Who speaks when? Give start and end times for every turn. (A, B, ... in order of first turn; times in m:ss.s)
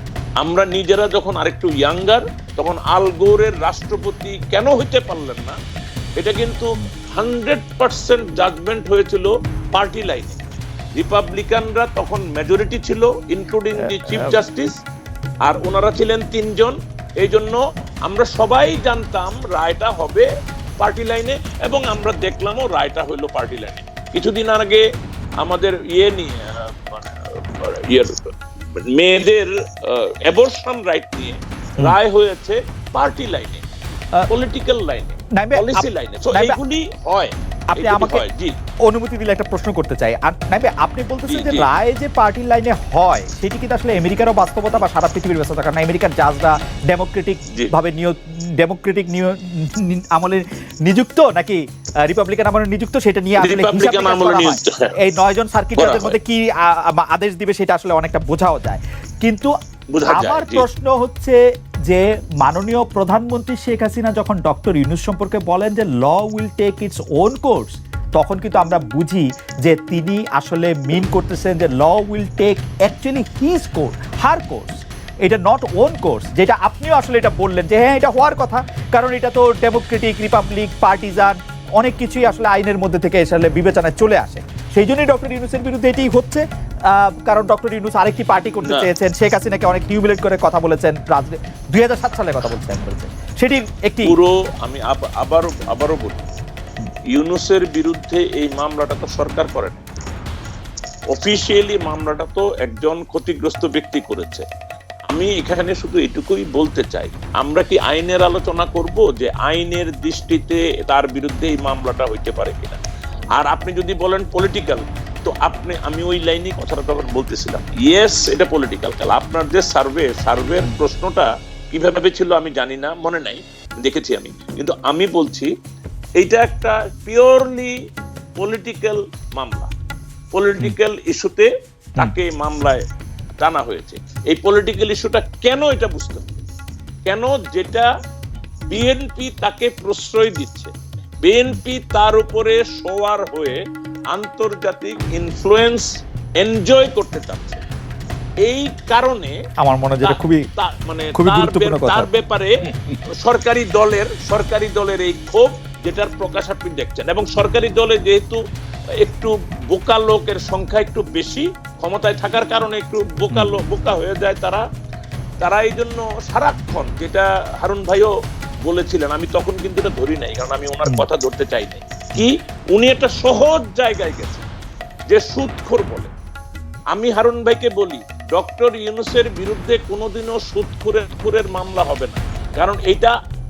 0:00.4-0:05.6 A
0:06.2-0:10.4 A
0:11.0-0:14.8 A
0:13.8-0:14.4 B
0:15.4-0:20.3 A
0:20.8-0:24.8 A
0:25.4-0:33.6 A
0:34.3-0:38.6 A
0:35.3-0:36.6 B
0:37.7-0:38.2 B
0:38.9-0:59.5 B
0:41.3-0:41.7 A
0:53.4-0:54.9 A
0:55.8-0:56.2 A
0:59.9-1:00.7 A
1:00.1-1:34.2 B
1:34.0-1:36.2 A
1:37.1-1:39.8 A
1:41.1-1:44.5 A
1:45.1-1:52.8 A
1:53.3-2:05.5 A
2:06.2-2:07.8 A
2:08.4-2:09.7 A
2:10.3-2:12.8 A
2:13.4-2:16.4 A
2:17.1-2:17.9 A
2:18.7-2:20.7 A
2:21.2-2:23.6 A
2:24.1-2:25.9 A
2:26.4-2:27.6 A
2:28.4-2:29.3 A
2:29.6-2:30.5 B
2:30.0-2:32.5 A
2:31.2-2:32.1 B
2:33.2-2:38.4 A
2:39.0-2:44.6 A
2:45.4-2:48.1 A
2:48.6-2:54.4 A
2:55.1-2:56.1 A
2:56.9-3:03.1 A